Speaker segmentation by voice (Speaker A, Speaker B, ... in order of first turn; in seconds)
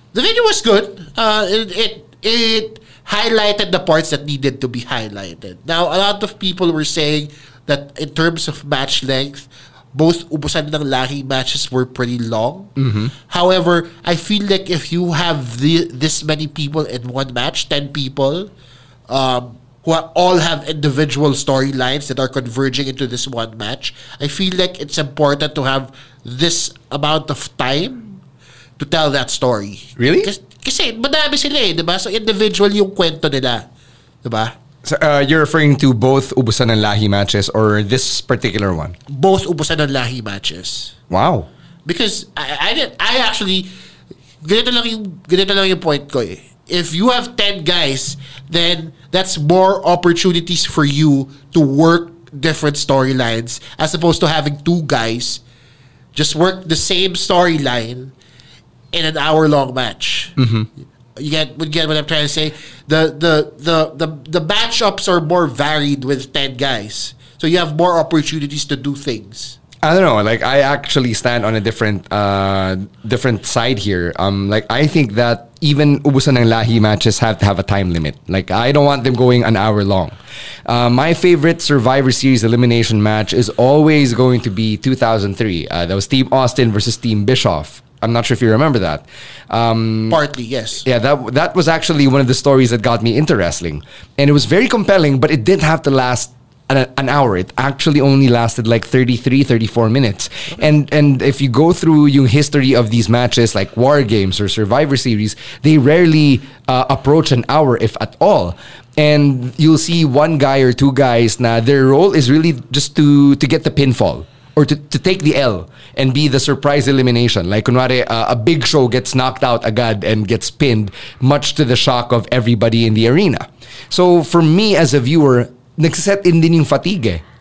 Speaker A: 0.1-12.7, 13.3-18.5, 19.1-28.2, 28.8-33.7, 34.2-34.5, 39.1-40.9, 41.8-43.7, 44.4-55.4, 56.1-58.1, 58.9-60.3, 61.1-69.6, 90.1-90.8
Speaker B: 12.8-13.1, 30.0-30.3, 34.8-39.0, 41.1-41.5, 60.4-60.7, 69.8-90.2, 90.8-127.2